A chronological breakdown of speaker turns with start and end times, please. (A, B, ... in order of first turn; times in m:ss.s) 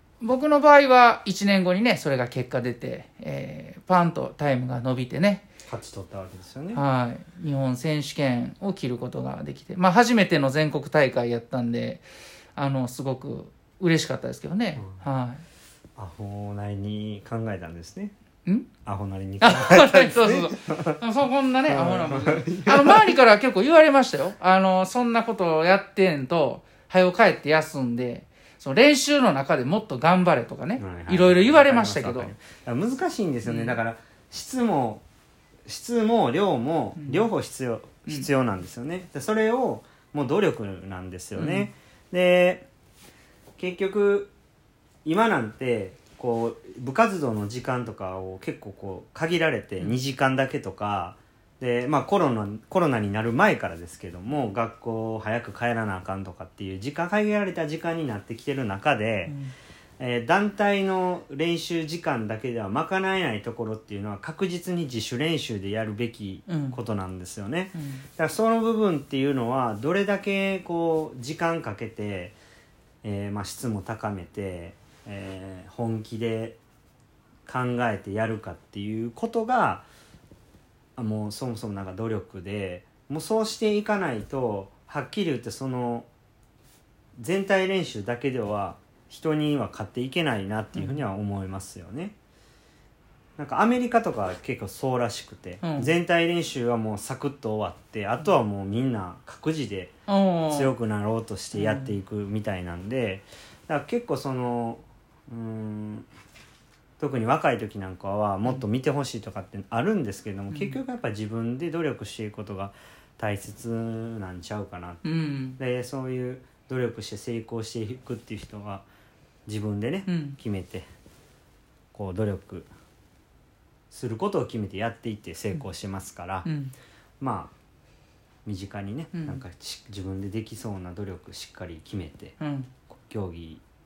0:00.2-0:05.4 A
0:05.7-0:06.8 B
0:06.7-0:12.0 A
0:12.6-0:15.4 A
0:16.0-0:18.1 B
0:18.8-0:21.0 B
0:19.4-0:32.3 A
0:21.7-0:23.2 B
0:30.8-0:35.0 B
0:33.4-0:33.8 A
0:35.6-0:42.7 B
0:37.0-0:37.3 A
0:41.4-0:41.7 A
0:43.6-0:44.3 B
0:45.0-0:59.3 B
0:59.3-0:59.5 A
1:00.0-1:12.4 B
1:06.5-1:06.8 A
1:07.7-1:08.0 A
1:13.0-1:16.6 B
1:17.4-1:19.8 B
1:21.0-1:26.1 B
1:27.2-1:32.1 B
1:30.7-1:31.0 A
1:33.4-1:40.0 B
1:35.6-1:35.9 A
1:40.1-1:40.7 A
1:40.5-1:46.1 B
1:41.5-1:41.9 A
1:47.0-1:55.0 B
1:50.5-1:50.8 A
1:55.0-1:55.6 A
1:55.6-1:58.8 B
1:59.5-2:00.8 B
2:00.1-2:00.4 A
2:01.9-2:02.7 B
2:03.9-2:06.5 B
2:06.4-2:06.7 A
2:07.2-2:07.5 B
2:08.4-2:12.3 B
2:09.1-2:09.4 A
2:12.4-2:12.7 A
2:12.9-2:13.6 B